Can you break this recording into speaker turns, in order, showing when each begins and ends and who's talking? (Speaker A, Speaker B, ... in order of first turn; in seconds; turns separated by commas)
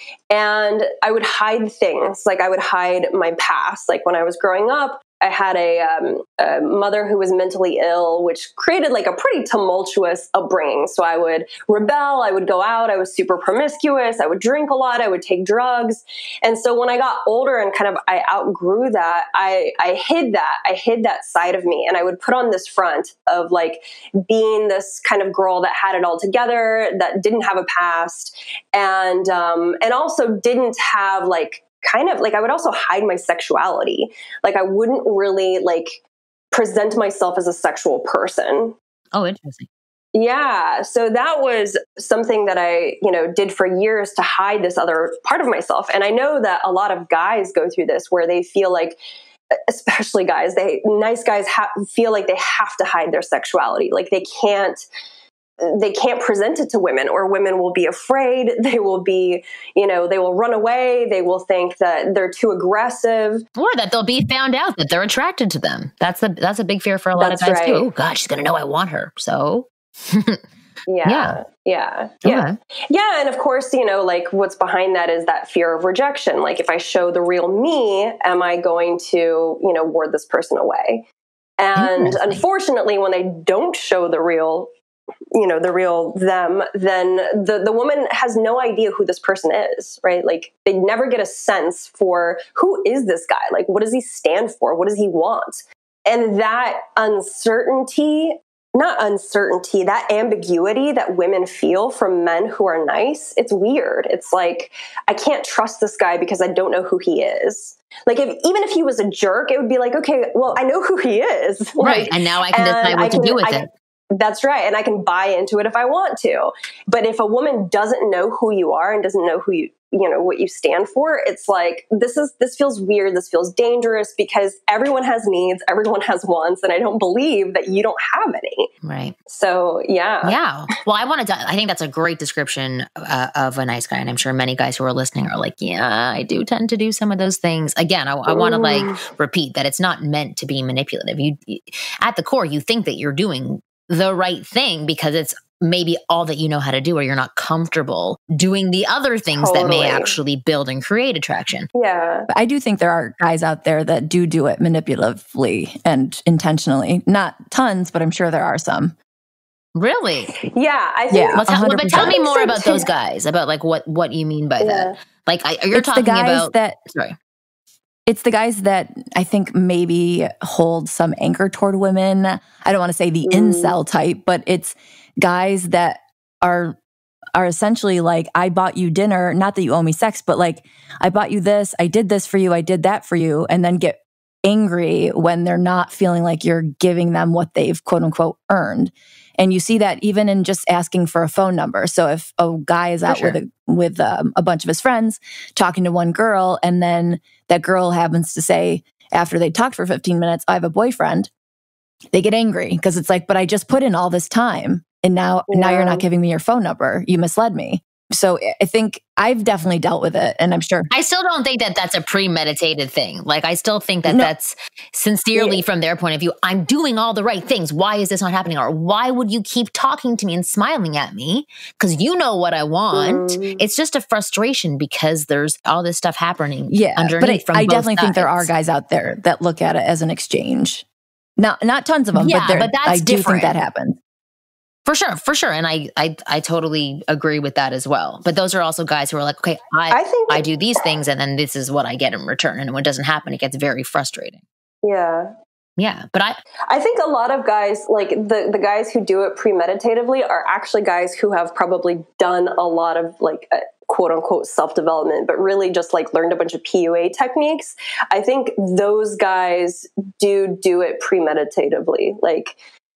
Speaker A: 0.3-38.8, Speaker B: 39.1-39.7, Speaker A: 40.1-49.0, Speaker A: 49.5-54.9, Speaker A: 55.6-63.4, Speaker B: 63.6-70.4, Speaker A: 67.2-67.9, Speaker A: 70.9-81.1, Speaker B: 71.0-71.4, Speaker B: 72.2-72.5, Speaker A: 81.6-84.7, Speaker B: 81.8-82.4, Speaker A: 85.3-128.7, Speaker B: 111.8-113.7, Speaker B: 128.8-129.2, Speaker A: 129.3-130.4, Speaker B: 130.2-151.7, Speaker A: 138.3-139.0, Speaker A: 149.3-150.2, Speaker A: 151.8-152.3, Speaker C: 152.3-158.9, Speaker B: 159.8-160.4, Speaker A: 160.4-162.9, Speaker C: 161.1-162.2, Speaker B: 161.4-167.2, Speaker A: 164.6-165.0, Speaker C: 165.7-166.8, Speaker C: 168.1-176.8, Speaker A: 173.3-173.8, Speaker C: 177.4-201.3, Speaker B: 193.1-193.4, Speaker C: 202.1-210.9, Speaker A: 205.5-206.1, Speaker B: 210.9-228.5, Speaker C: 214.1-214.3, Speaker A: 215.3-215.6, Speaker A: 222.9-223.6, Speaker C: 226.7-230.8, Speaker C: 231.4-234.0, Speaker B: 232.1-233.6, Speaker B: 234.9-244.4, Speaker A: 239.9-240.4, Speaker A: 244.8-245.3, Speaker B: 245.8-246.4, Speaker A: 246.7-262.6